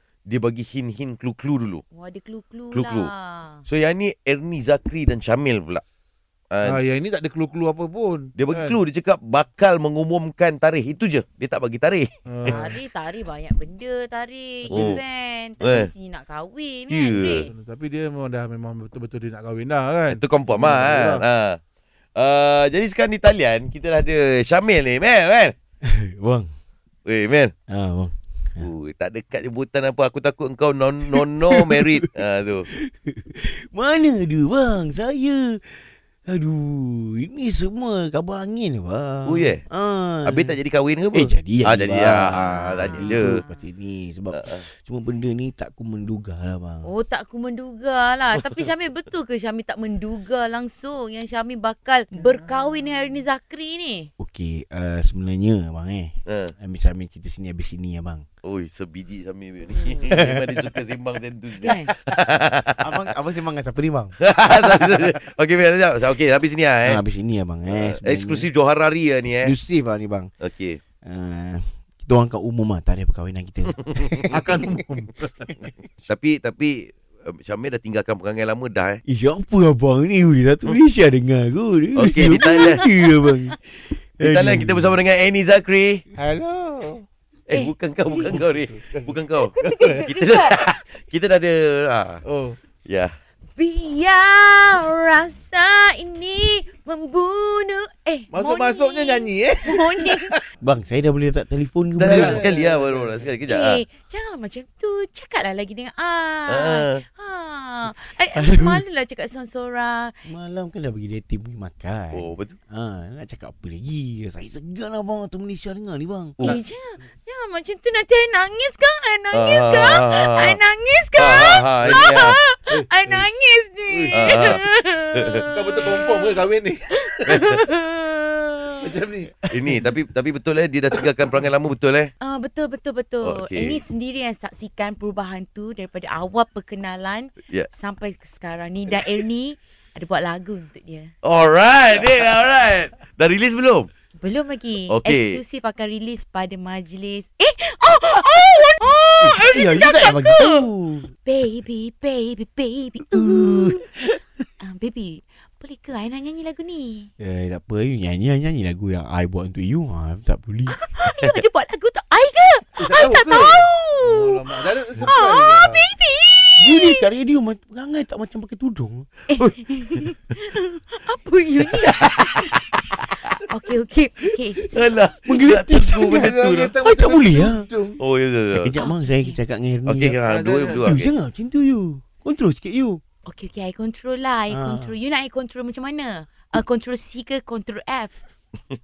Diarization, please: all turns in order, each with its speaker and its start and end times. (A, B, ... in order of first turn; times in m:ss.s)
0:00.3-0:01.8 A
0:01.9-0:03.6 B
0:02.7-0:03.1 A
0:03.7-0:05.8 A
0:06.5-0:06.9 A
0:06.6-0:08.8 C
0:08.4-0:12.7 A
0:12.2-0:12.8 C
0:12.4-0:17.5 B
0:14.7-0:15.0 A
0:15.6-0:15.9 A
0:16.9-0:17.4 A
0:17.5-0:20.2 C
0:20.1-0:21.6 A
0:20.5-0:21.2 D
0:22.2-0:25.5 A
0:25.8-0:26.5 D
0:27.0-0:27.5 A
0:27.7-0:28.7 D
0:28.6-0:32.7 A
0:31.6-0:31.8 D
0:32.7-0:40.6 D
0:39.2-0:39.6 A
0:40.2-0:43.4 A
0:41.1-0:46.9 D
0:42.4-0:43.6 B
0:44.3-0:44.6 A
0:46.8-0:54.1 B
0:54.2-0:58.2 D
0:56.3-0:56.5 A
0:58.4-1:03.1 A
1:00.0-1:00.8 D
1:01.6-1:01.9 B
1:02.8-1:04.2 D
1:04.2-1:07.0 A
1:06.8-1:08.5 D
1:07.7-1:09.5 A
1:09.2-1:10.3 D
1:10.4-1:10.8 A
1:11.0-1:14.8 D
1:14.3-1:15.5 C
1:16.1-1:19.0 A
1:19.0-1:25.0 D
1:21.9-1:22.8 A
1:24.2-1:26.0 A
1:26.1-1:27.0 C
1:27.5-1:32.2 A
1:27.5-1:28.4 B
1:28.2-1:29.1 C
1:29.4-1:30.5 B
1:29.6-1:30.0 C
1:32.2-1:32.6 C
1:32.8-1:33.1 A
1:33.6-1:40.4 B
1:38.3-1:40.4 C
1:40.6-1:42.5 D
1:42.0-1:43.8 A
1:42.0-1:43.3 C
1:43.5-1:50.1 B
1:46.5-1:47.0 A
1:48.3-1:48.8 D
1:50.2-1:56.5 D
1:52.1-1:52.5 A
1:56.4-2:06.3 B
1:59.3-2:00.6 A
2:01.2-2:02.4 A
2:01.9-2:02.2 C
2:02.7-2:03.3 C
2:03.9-2:04.3 C
2:04.1-2:04.6 A
2:05.1-2:05.4 A
2:05.5-2:07.4 C
2:07.2-2:08.9 B
2:08.8-2:09.5 C
2:09.5-2:12.1 A
2:12.2-2:21.1 B
2:13.2-2:13.8 A
2:21.2-2:23.9 A
2:24.2-2:30.7 B
2:24.9-2:25.4 A
2:29.2-2:31.1 D
2:31.2-2:33.9 B
2:33.1-2:33.8 D
2:34.6-2:37.1 B
2:37.2-2:40.8 D
2:40.7-2:47.0 B
2:42.8-2:45.9 C
2:46.6-2:49.1 D
2:49.3-2:54.6 B
2:54.7-2:56.7 A
2:55.2-2:57.7 D
2:56.1-2:58.0 C
2:58.0-2:58.7 A
2:58.5-3:03.0 D
2:58.8-2:59.4 B
2:59.8-3:01.1 A
3:00.2-3:00.9 C
3:03.2-3:08.2 B
3:04.5-3:04.9 D